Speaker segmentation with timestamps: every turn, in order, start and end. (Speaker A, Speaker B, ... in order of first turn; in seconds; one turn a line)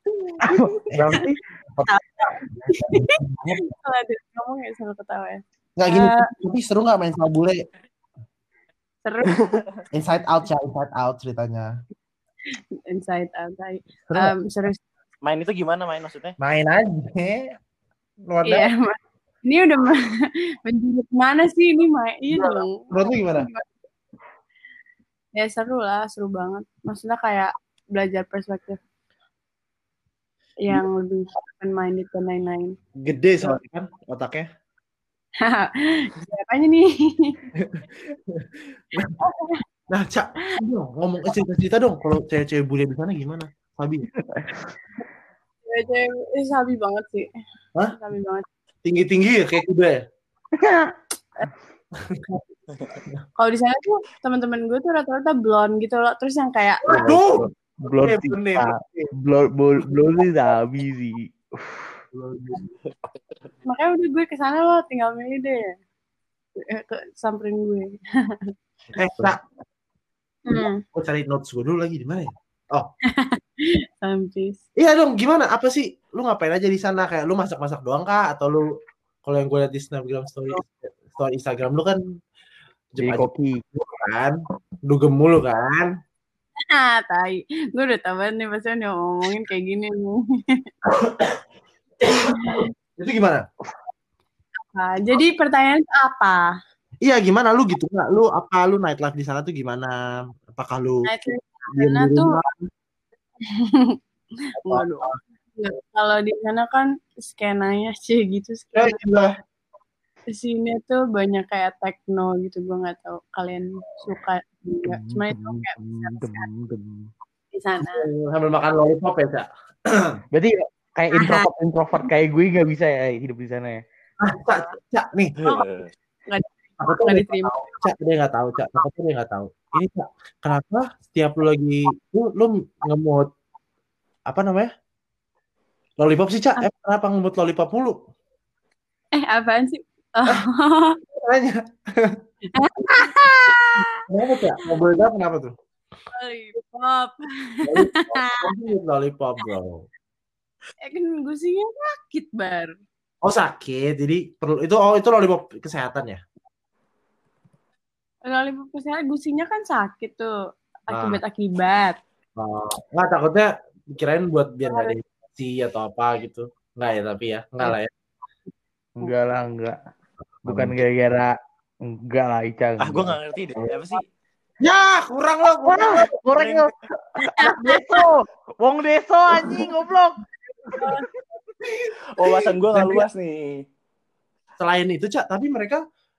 Speaker A: 0.4-1.2
Speaker B: 0.4-1.4
Speaker C: 0.9-1.9
Speaker A: 1.9-6.3
Speaker C: 2.5-3.6
Speaker C: 5.8-7.6
Speaker A: 9.0-9.4
Speaker D: 9.4-9.6
Speaker C: 9.9-11.7
Speaker A: 12.9-14.8
Speaker D: 15.2-16.4
Speaker C: 16.4-17.5
Speaker C: 18.3-18.7
Speaker A: 18.5-20.0
Speaker A: 20.6-23.6
Speaker C: 22.3-23.5
Speaker A: 25.4-28.8
Speaker A: 30.6-32.8
Speaker C: 33.0-34.5
Speaker A: 35.4-37.4
Speaker C: 37.5-39.1
Speaker A: 39.2-39.6
Speaker C: 39.9-44.1
Speaker A: 45.6-47.3
Speaker A: 47.9-48.5
Speaker C: 48.9-50.0
Speaker B: 50.6-50.9
Speaker A: 53.4-56.9
Speaker C: 56.9-59.1
Speaker B: 56.9-62.0
Speaker C: 62.1-62.6
Speaker D: 62.9-63.2
Speaker A: 63.6-65.7
Speaker A: 66.6-68.5
Speaker C: 68.9-69.4
Speaker A: 70.5-70.8
Speaker C: 70.5-72.9
Speaker A: 73.1-74.6
Speaker C: 74.8-78.7
Speaker C: 79.2-82.0
Speaker C: 82.9-85.9
Speaker B: 83.0-83.6
Speaker A: 86.7-90.7
Speaker C: 90.9-91.4
Speaker C: 92.2-93.5
Speaker A: 92.3-92.7
Speaker A: 94.7-96.5
Speaker C: 97.0-100.0
Speaker C: 100.5-102.7
Speaker A: 101.0-102.4
Speaker A: 103.5-104.0
Speaker C: 104.6-105.2
Speaker A: 104.6-109.0
Speaker C: 108.8-109.3
Speaker A: 110.3-116.5
Speaker B: 114.9-117.1
Speaker A: 117.5-118.1
Speaker C: 117.8-120.2
Speaker B: 120.3-123.8
Speaker A: 121.1-121.5
Speaker C: 124.2-125.3
Speaker D: 125.4-125.9
Speaker A: 125.5-125.8
Speaker A: 126.3-127.7
Speaker C: 126.8-133.3
Speaker C: 134.3-134.7
Speaker C: 136.0-138.0
Speaker A: 139.2-141.0
Speaker C: 141.1-142.2
Speaker A: 142.5-144.1
Speaker C: 144.1-145.5
Speaker A: 146.1-148.5
Speaker C: 147.6-149.9
Speaker A: 150.8-152.8
Speaker C: 153.2-156.2
Speaker A: 158.3-160.3
Speaker A: 160.9-162.0
Speaker C: 160.9-161.2
Speaker C: 162.4-167.9
Speaker A: 164.7-164.9
Speaker B: 169.0-169.8
Speaker C: 170.4-170.8
Speaker B: 170.5-173.2
Speaker D: 172.8-174.0
Speaker C: 174.6-176.1
Speaker B: 175.6-180.9
Speaker D: 176.4-176.7
Speaker C: 177.5-178.0
Speaker C: 179.3-179.7
Speaker A: 180.8-181.0
Speaker C: 181.7-183.1
Speaker D: 182.2-183.6
Speaker C: 184.6-185.8